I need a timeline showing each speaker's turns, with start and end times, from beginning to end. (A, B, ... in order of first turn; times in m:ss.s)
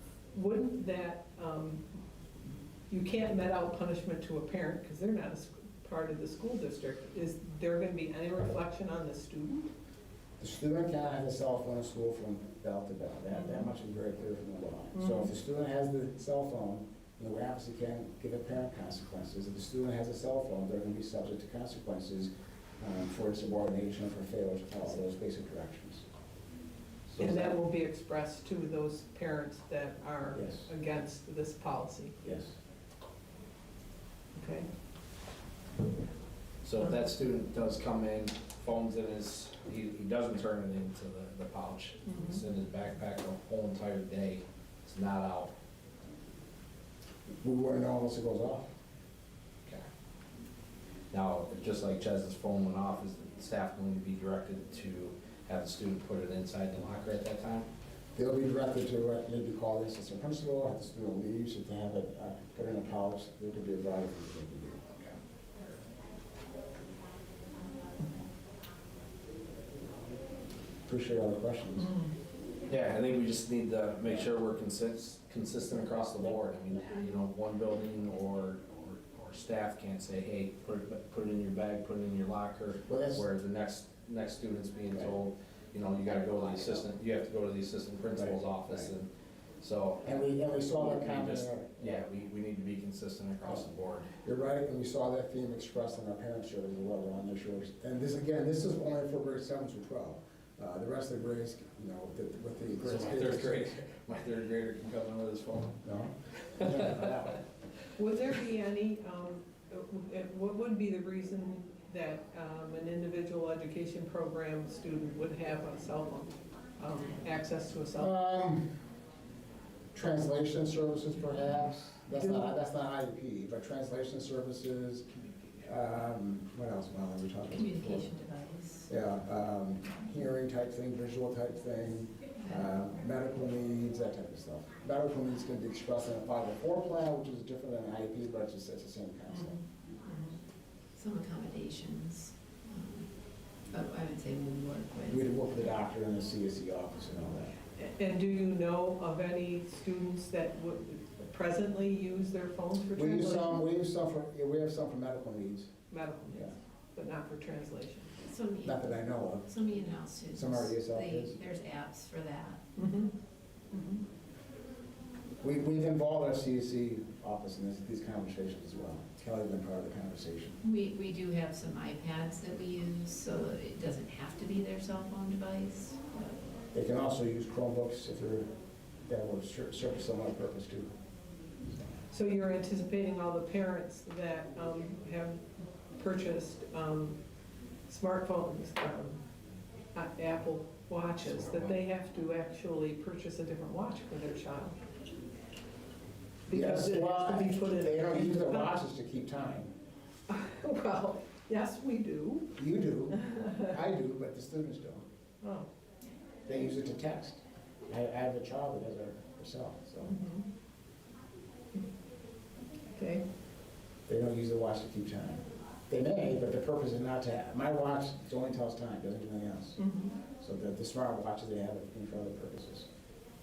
0:00.3-0:01.8 A
0:02.9-0:09.7 A
0:10.4-0:26.0 B
0:13.3-0:13.7 A
0:14.9-0:15.3 A
0:27.1-0:27.5 C
0:27.2-0:32.2 A
0:30.3-0:30.7 B
0:32.2-0:32.6 B
0:34.3-0:34.7 A
0:36.6-0:45.5 C
0:42.1-0:42.4 A
0:47.4-0:48.7 B
0:51.1-0:57.7 C
0:58.2-1:04.9 B
1:10.9-1:11.9 B
1:11.8-1:12.1 A
1:12.7-1:29.1 C
1:22.9-1:23.2 B
1:26.3-1:26.7 D
1:28.1-1:28.9 B
1:29.6-1:34.1 C
1:30.0-1:32.0 B
1:34.2-1:43.7 B
1:42.8-1:45.8 C
1:45.8-1:47.4 B
1:46.5-1:47.4 C
1:48.0-1:58.1 A
1:57.9-1:58.7 B
1:59.9-2:05.0 B
2:02.1-2:02.5 A
2:05.6-2:08.1 B
2:07.5-2:08.9 D
2:08.9-2:19.6 B
2:12.4-2:12.8 D
2:19.3-2:20.4 A
2:21.0-2:23.1 D
2:23.7-2:25.3 D
2:25.1-2:27.6 B
2:27.8-2:33.6 A
2:32.9-2:35.7 B
2:35.9-2:38.1 A
2:36.3-2:36.5 B
2:38.2-2:38.9 D
2:38.6-2:39.5 B
2:39.5-2:42.6 D
2:40.3-2:41.4 B
2:42.8-2:43.1 A
2:43.7-2:44.0 A
2:45.4-2:50.6 B
2:50.6-2:56.4 D
2:56.7-2:58.5 B
2:59.1-3:00.9 B
3:02.1-3:07.2 A
3:07.9-3:09.2 A
3:09.9-3:14.8 A
3:11.2-3:11.8 C
3:16.5-3:18.7 A
3:16.5-3:19.7 B
3:20.3-3:22.5 A
3:22.6-3:25.0 B
3:23.2-3:23.6 A
3:25.4-3:25.7 A
3:26.5-3:30.2 B
3:30.0-3:30.4 A
3:32.9-3:33.2 A
3:34.1-3:39.8 B
3:39.8-3:40.1 A
3:40.4-3:42.9 B